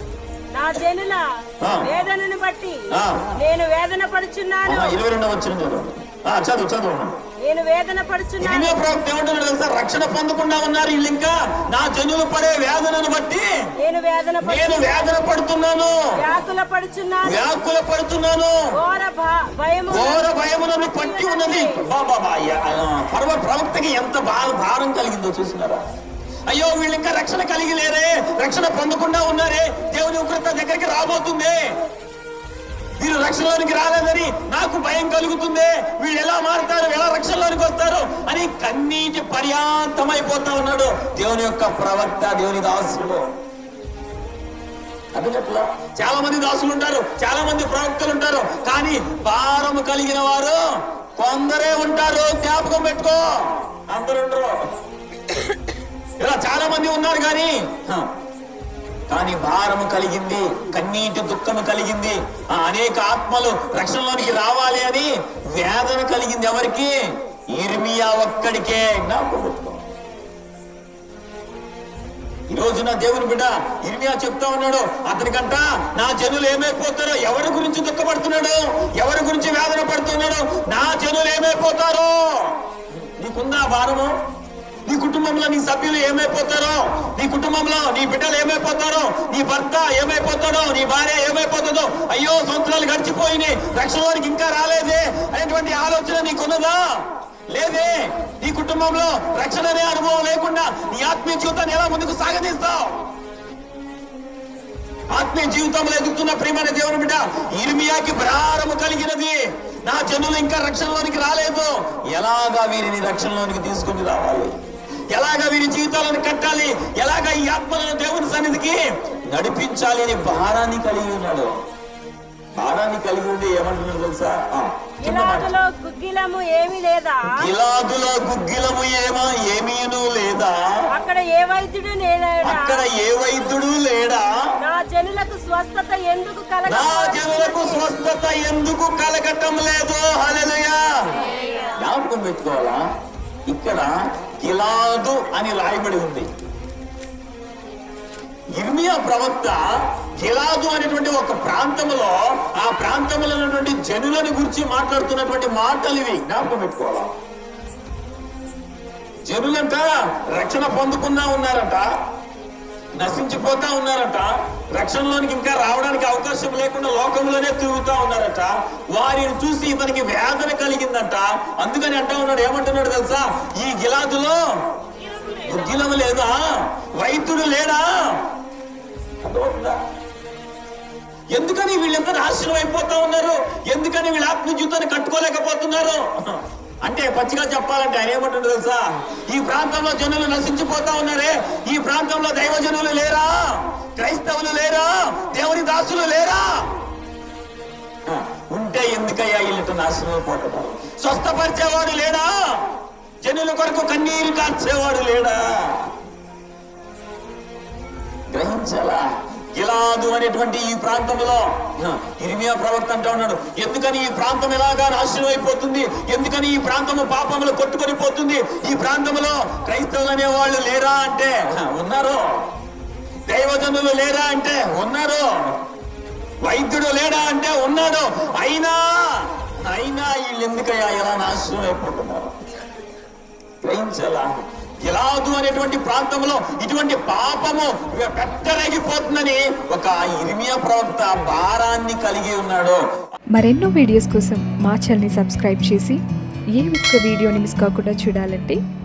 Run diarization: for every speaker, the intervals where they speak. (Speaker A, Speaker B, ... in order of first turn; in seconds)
Speaker A: 0.5-1.2, 1.8-2.8, 3.3-5.0, 7.4-8.9, 13.8-15.2, 16.1-17.6, 18.7-21.9, 125.0-127.5, 130.9-132.8, 134.6-137.9, 175.0-175.8
Speaker B: 1.6-1.9, 2.9-3.4, 4.7-7.2, 8.4-13.5, 14.4-16.1, 17.2-18.6, 19.9-25.8, 26.5-31.8, 33.0-43.2, 45.1-50.6, 51.2-54.5, 56.2-58.1, 59.1-66.9, 67.5-69.8, 72.5-84.1, 84.9-103.0, 105.1-114.6, 115.1-121.5, 122.6-125.5, 127.3-130.8, 132.4-134.3, 136.7-141.2, 141.8-142.8, 143.5-146.3, 148.6-149.6, 150.2-157.1, 159.3-161.8, 162.9-174.4, 175.4-178.2, 179.2-179.8, 181.3-196.6, 198.1-202.7, 203.2-205.9, 208.3-222.4, 223.3-225.3, 226.4-232.4, 233.6-242.8
Speaker C: 243.4-246.0, 246.6-248.6